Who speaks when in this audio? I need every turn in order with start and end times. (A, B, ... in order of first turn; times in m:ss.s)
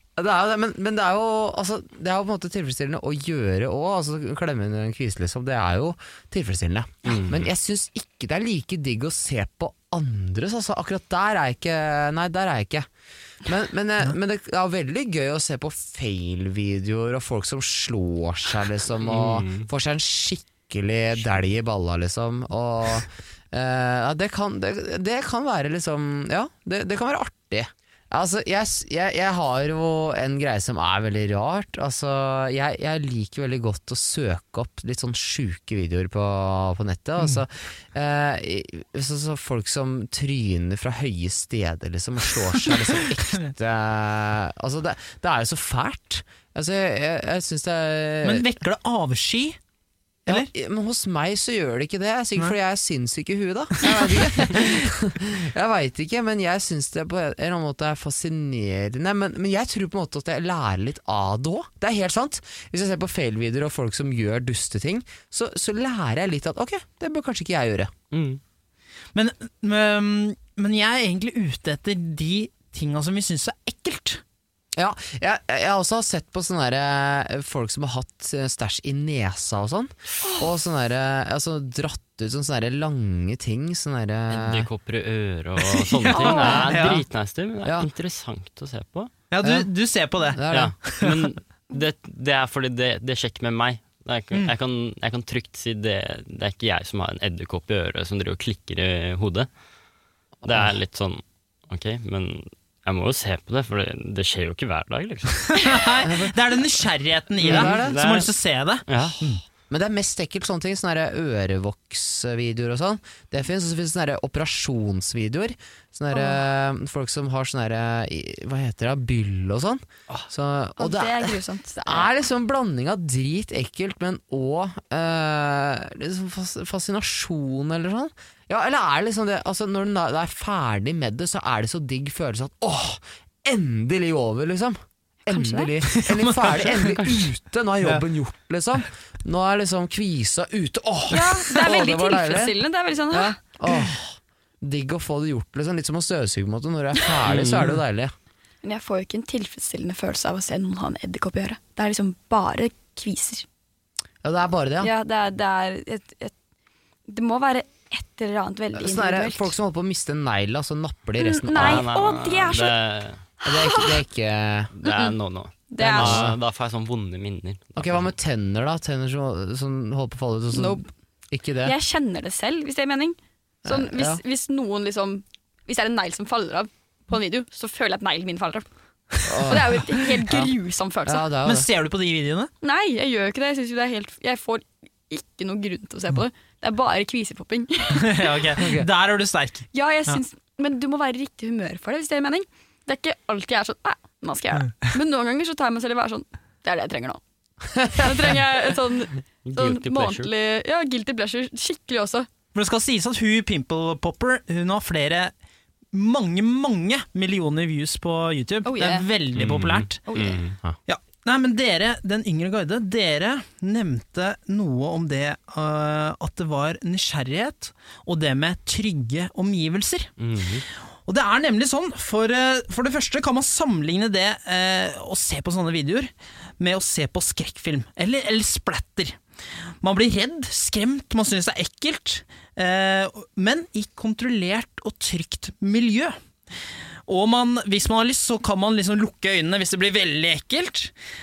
0:00.2-0:12.9 A
0:07.1-0:07.5 B
0:13.4-0:48.5 A
0:19.0-0:19.7 B
0:48.2-0:49.6 C
0:50.3-1:07.9 A
0:53.8-0:54.1 C
1:08.1-1:08.4 B
1:09.1-1:14.2 C
1:14.8-1:24.7 A
1:24.3-1:29.1 B
1:26.0-1:27.0 C
1:26.1-1:26.7 D
1:27.6-1:27.9 A
1:29.3-1:31.2 C
1:29.4-1:29.7 A
1:30.3-1:30.8 A
1:30.5-1:39.5 B
1:40.4-1:40.8 A
1:40.4-1:45.8 B
1:45.5-1:49.4 C
1:46.0-1:46.3 A
1:47.4-1:49.2 B
1:47.4-1:48.0 A
1:49.7-2:22.6 A
1:56.1-1:56.4 D
2:00.8-2:02.1 D
2:15.3-2:15.7 D
2:16.0-2:17.3 C
2:21.1-2:23.4 D
2:23.1-2:28.1 A
2:27.3-2:27.8 B
2:28.6-2:33.5 D
2:34.2-2:34.9 A
2:34.8-2:36.3 D
2:37.1-2:39.5 D
2:38.8-2:41.9 A
2:41.2-2:42.8 D
2:41.6-2:43.2 B
2:43.4-2:44.7 A
2:43.5-2:43.9 D
2:44.8-2:48.2 B
2:44.8-2:45.1 D
2:45.7-2:46.3 D
2:45.8-2:46.4 A
2:47.8-2:51.8 A
2:50.5-2:50.9 D
2:51.6-2:58.6 D
2:53.6-2:54.2 A
2:59.2-3:00.5 A
2:59.4-3:01.3 D
3:01.1-3:01.7 A
3:01.4-3:02.5 C
3:02.6-3:08.2 D
3:08.0-3:10.2 C
3:08.6-3:08.9 A
3:09.7-3:17.2 D
3:17.8-3:18.2 A
3:17.8-3:22.3 D
3:19.4-3:20.3 B
3:22.5-3:25.3 C
3:25.9-3:30.0 C
3:28.6-3:29.1 D
3:29.4-3:30.6 B
3:30.1-3:30.4 D
3:30.9-3:40.1 C
3:40.2-3:40.6 B
3:41.1-3:49.2 C
3:49.8-3:56.2 C
3:57.1-4:00.9 C